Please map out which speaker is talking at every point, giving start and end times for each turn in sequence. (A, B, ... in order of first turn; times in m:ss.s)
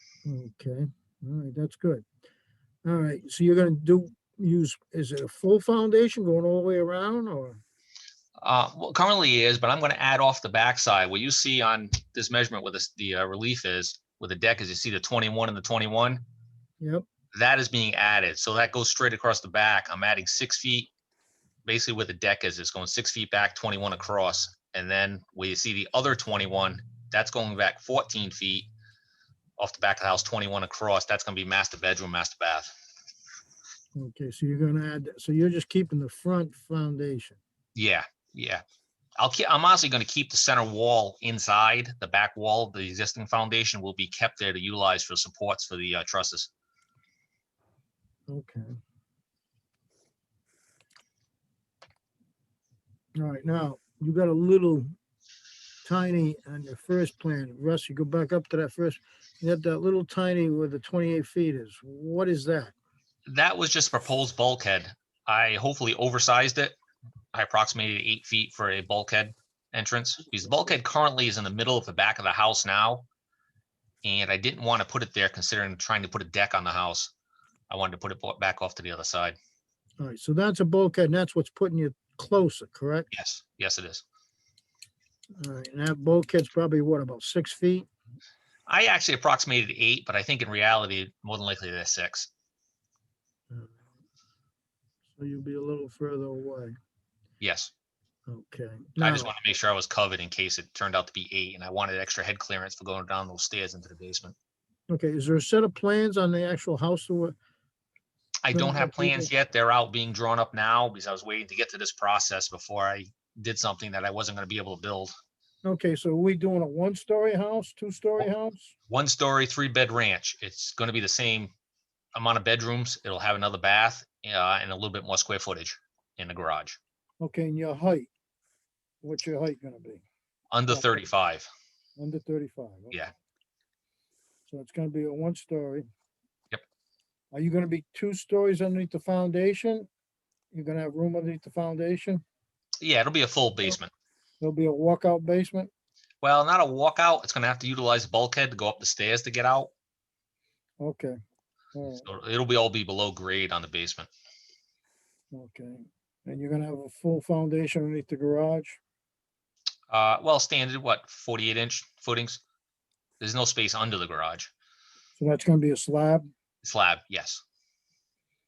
0:00.2-0:02.0 A
0:02.8-0:07.6 A
0:08.4-0:16.2 B
0:17.3-0:20.9 B
0:21.7-0:28.7 B
0:29.6-0:32.7 B
0:34.0-0:37.4 A
0:37.8-0:38.6 B
0:39.2-0:46.5 B
0:48.3-0:48.8 A
0:53.2-0:54.9 A
0:55.8-1:02.7 A
1:03.3-1:06.8 B
1:07.3-1:13.0 B
1:14.0-1:17.1 B
1:17.7-1:19.4 B
1:20.0-1:23.1 A
1:23.1-1:24.0 B
1:25.4-1:27.9 A
1:28.7-1:32.3 B
1:33.5-1:33.8 A
1:35.1-1:36.7 A
1:37.4-1:37.7 B
1:38.3-1:39.3 A
1:39.0-1:44.3 B
1:44.9-1:47.4 A
1:48.4-1:55.1 B
1:48.5-1:49.3 A
1:55.6-1:58.7 A
1:58.9-2:01.5 B
2:02.2-2:06.8 B
2:07.2-2:08.1 A
2:09.0-2:10.0 A
2:10.5-2:11.5 B
2:10.7-2:11.0 A
2:12.0-2:13.0 A
2:14.5-2:15.9 A
2:17.3-2:19.9 A
2:20.5-2:22.2 A
2:22.8-2:23.9 B
2:24.4-2:25.7 A
2:26.2-2:29.7 B
2:30.8-2:31.2 A
2:31.7-2:32.1 A
2:32.0-2:34.1 B
2:35.3-2:38.8 A
2:39.9-2:42.4 B
2:43.2-2:44.5 B
2:45.2-2:46.3 A
2:46.6-2:47.4 B